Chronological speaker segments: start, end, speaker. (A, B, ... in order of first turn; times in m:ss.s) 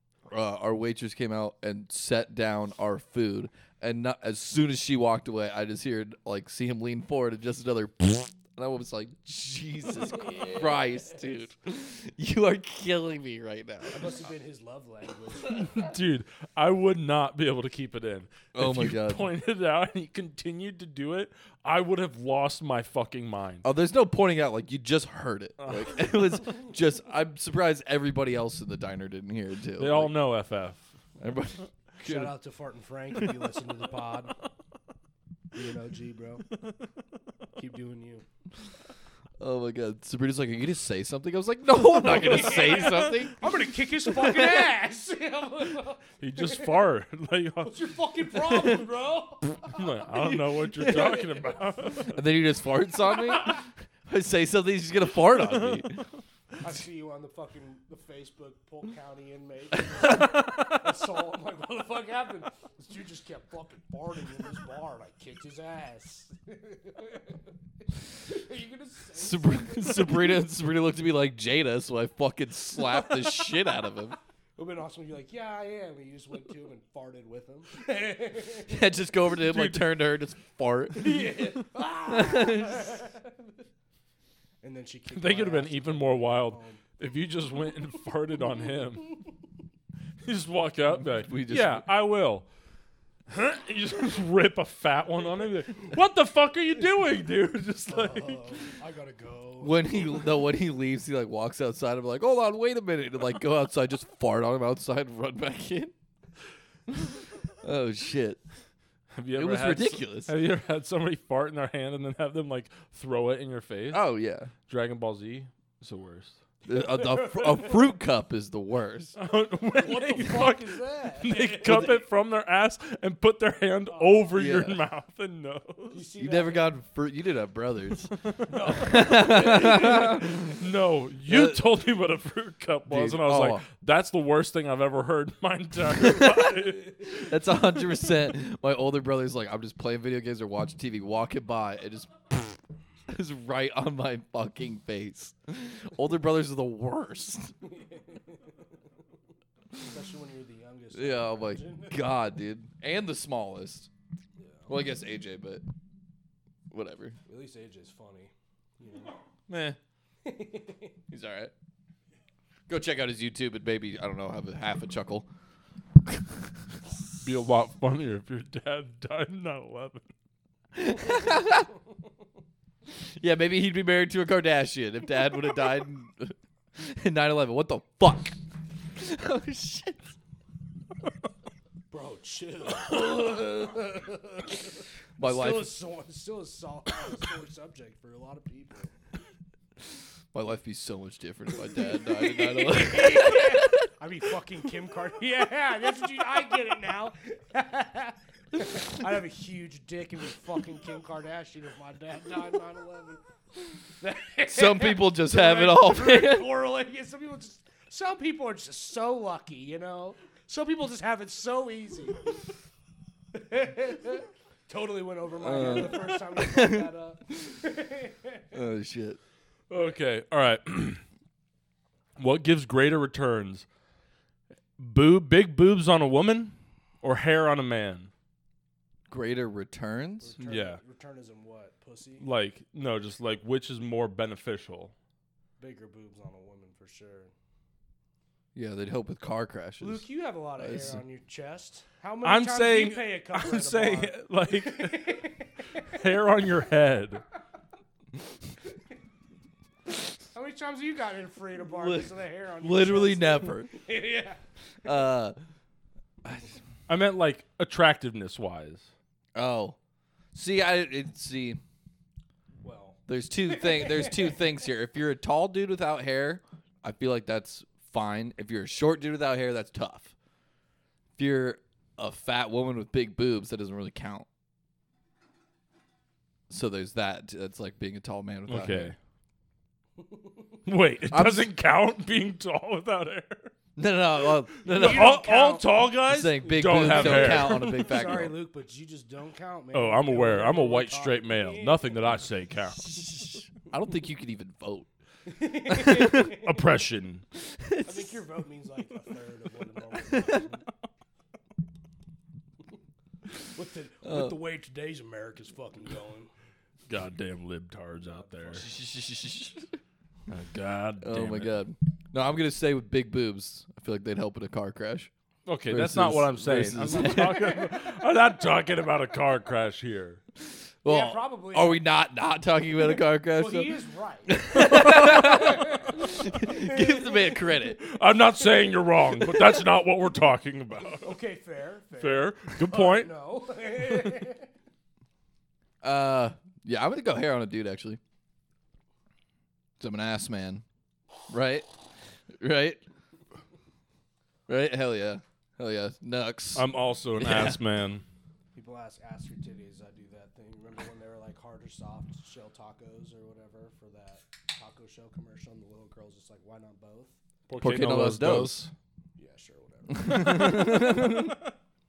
0:00.3-0:14.1 A
0:10.1-0:11.4 B
0:13.9-0:15.7 B
0:15.4-0:23.6 C
0:18.5-0:19.3 A
0:23.6-0:30.1 A
0:25.6-0:26.0 C
0:29.8-0:30.8 C
0:31.2-0:32.3 A
0:32.0-0:34.3 B
0:35.5-0:36.4 B
0:37.6-0:38.2 B
0:39.4-0:43.4 A
0:42.0-0:46.8 B
0:42.1-0:43.2 C
0:44.1-0:44.6 A
0:46.2-0:47.8 C
0:47.6-0:51.6 B
0:48.5-0:48.8 A
0:49.7-0:52.2 C
0:50.7-0:51.2 A
0:52.0-0:56.0 A
0:56.6-1:10.4 B
1:09.2-1:14.2 A
1:14.6-1:18.8 B
1:18.7-1:21.2 A
1:19.4-1:19.9 C
1:21.0-1:23.5 B
1:22.1-1:23.0 A
1:24.6-1:26.8 B
1:25.1-1:29.2 C
1:30.2-1:32.5 C
1:30.9-1:31.8 A
1:33.3-1:38.5 C
1:37.9-1:39.9 B
1:39.6-1:45.9 A
1:46.9-1:48.4 A
1:49.1-1:54.0 C
1:49.3-1:50.3 A
1:53.9-1:54.5 A
1:54.6-1:56.4 C
1:56.6-1:59.2 A
1:56.7-1:57.9 B
1:59.2-2:06.0 C
1:59.8-2:02.0 B
2:01.6-2:01.9 A
2:03.9-2:04.4 B
2:04.3-2:04.8 A
2:05.9-2:06.7 B
2:06.2-2:08.1 A
2:08.5-2:10.2 B
2:08.7-2:10.6 A
2:09.6-2:17.4 C
2:11.3-2:11.6 A
2:12.9-2:13.6 A
2:15.9-2:27.5 A
2:27.6-2:28.6 B
2:29.8-2:32.1 B
2:30.9-2:33.9 A
2:34.4-2:34.7 B
2:34.7-2:35.6 A
2:36.7-2:37.2 A
2:37.3-2:39.1 B
2:39.5-2:39.8 A
2:40.2-2:40.9 B
2:41.1-2:41.5 A
2:42.7-2:45.3 A
2:46.0-2:46.5 A
2:47.2-2:50.1 C
2:50.7-2:51.7 A
2:53.0-2:58.4 A
2:58.9-3:00.1 A
3:01.9-3:08.9 B
3:05.2-3:05.7 A
3:10.3-3:13.9 A
3:11.9-3:23.2 B
3:24.0-3:32.3 B
3:24.4-3:26.5 A
3:33.3-3:38.4 B
3:35.4-3:36.9 A
3:38.5-3:39.2 A
3:39.7-3:41.0 C
3:42.2-3:43.6 C
3:44.8-3:48.1 C
3:49.1-3:50.4 A
3:50.2-3:52.2 B
3:50.4-3:50.8 C
3:52.2-3:54.9 C
3:55.6-3:57.3 B
3:58.5-4:00.0 A
3:59.8-4:06.0 B
4:00.6-4:01.0 A
4:02.2-4:05.2 C
4:05.8-4:07.2 C
4:10.3-4:14.4 B
4:11.7-4:13.7 A
4:14.8-4:15.4 A
4:16.2-4:16.6 A
4:16.9-4:18.9 C
4:19.3-4:19.8 A
4:20.3-4:21.6 A
4:22.6-4:24.4 B
4:23.1-4:30.1 A
4:31.2-4:34.3 A
4:36.5-4:38.9 A
4:38.5-4:38.9 C
4:40.0-4:40.4 B
4:40.6-4:43.5 C
4:41.1-4:41.5 A
4:43.8-4:45.2 A
4:44.7-4:45.8 B
4:44.7-4:47.8 C
4:46.0-4:48.3 A
4:46.4-4:51.9 B
4:49.7-4:52.9 C
4:52.9-4:54.9 A
4:55.3-4:56.6 B
4:55.7-4:56.3 A
4:56.1-4:57.2 C
4:57.5-4:58.2 A
4:57.8-5:00.6 B
5:00.1-5:00.4 A
5:03.4-5:06.3 B
5:04.0-5:04.4 A
5:06.9-5:08.7 C
5:08.1-5:08.7 B
5:08.5-5:09.8 A
5:10.3-5:11.5 C
5:11.0-5:15.1 A
5:15.4-5:20.2 C
5:15.7-5:17.6 A
5:17.2-5:17.7 B
5:20.4-5:23.7 A
5:20.8-5:21.8 B
5:23.3-5:27.3 B
5:24.3-5:27.8 A
5:24.8-5:25.3 C
5:27.7-5:31.1 C
5:31.0-5:34.5 B
5:32.0-5:33.1 C
5:35.8-5:38.0 A
5:39.8-5:40.6 A
5:41.3-5:41.7 A
5:42.3-5:42.8 A
5:44.5-5:47.6 A
5:46.5-5:48.0 C
5:48.5-5:57.2 B
5:57.5-5:58.7 C
5:57.6-5:58.7 A
5:59.2-6:01.2 B
5:59.9-6:01.4 A
6:00.3-6:01.0 C